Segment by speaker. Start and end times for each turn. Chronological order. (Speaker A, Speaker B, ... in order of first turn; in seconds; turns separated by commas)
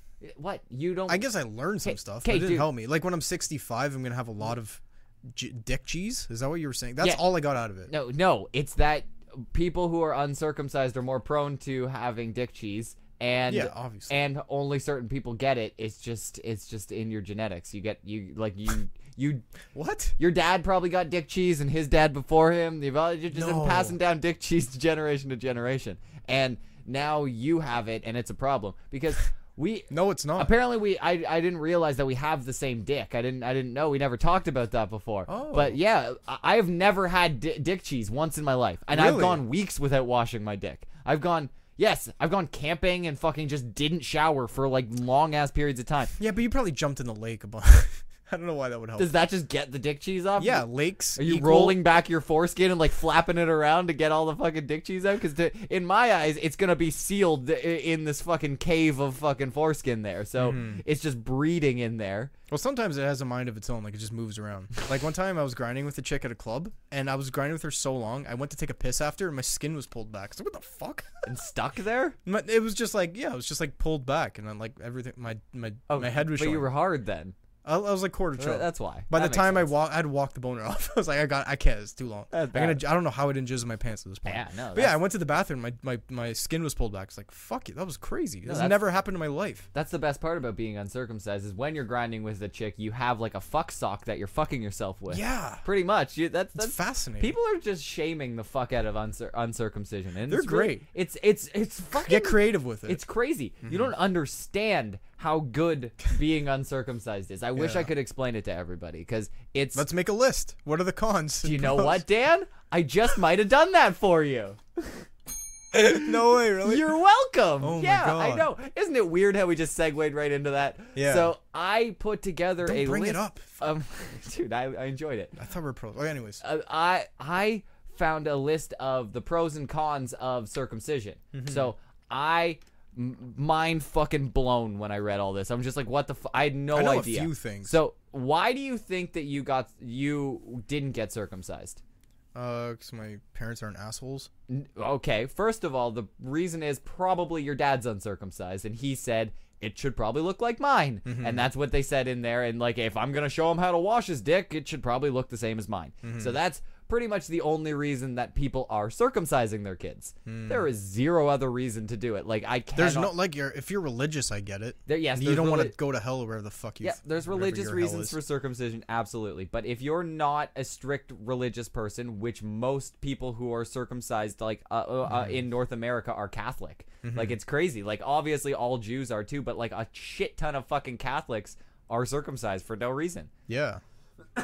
Speaker A: 0.2-1.2, Speaker B: 1.1-7.9, Speaker A: 1.8-2.7, Speaker A: 7.9-19.4, Speaker B: 13.5-14.2, Speaker B: 19.7-20.1, Speaker A: 20.2-46.1, Speaker B: 23.3-24.0, Speaker B: 29.9-30.5, Speaker B: 35.3-35.8, Speaker B: 38.9-39.4, Speaker B: 46.2-49.2, Speaker A: 49.0-62.3, Speaker B: 50.4-51.8, Speaker B: 60.4-60.8, Speaker B: 62.5-71.1, Speaker A: 71.2-72.2, Speaker B: 72.2-76.7, Speaker A: 75.9-77.3, Speaker B: 77.6-89.7, Speaker A: 78.4-79.7, Speaker A: 82.3-82.8, Speaker A: 84.2-85.0, Speaker A: 88.5-88.8, Speaker A: 89.7-109.8, Speaker B: 95.1-95.6, Speaker B: 96.5-97.3, Speaker B: 100.3-100.8, Speaker B: 101.9-103.0, Speaker B: 103.6-103.9, Speaker B: 107.5-107.9, Speaker B: 109.7-112.0, Speaker A: 111.4-114.8, Speaker A: 115.7-125.3, Speaker B: 115.8-116.9, Speaker B: 117.6-118.5, Speaker B: 120.9-121.3, Speaker B: 122.6-123.7, Speaker B: 125.3-126.4, Speaker A: 126.4-141.8, Speaker B: 131.3-131.7, Speaker B: 136.7-137.8, Speaker B: 142.3-144.3, Speaker A: 144.5-163.1, Speaker B: 151.0-151.5, Speaker B: 156.0-156.4, Speaker B: 160.2-160.7, Speaker B: 162.7-168.2, Speaker A: 164.9-165.8, Speaker A: 166.8-183.3, Speaker B: 175.1-175.4, Speaker B: 177.0-177.3, Speaker B: 183.5-183.8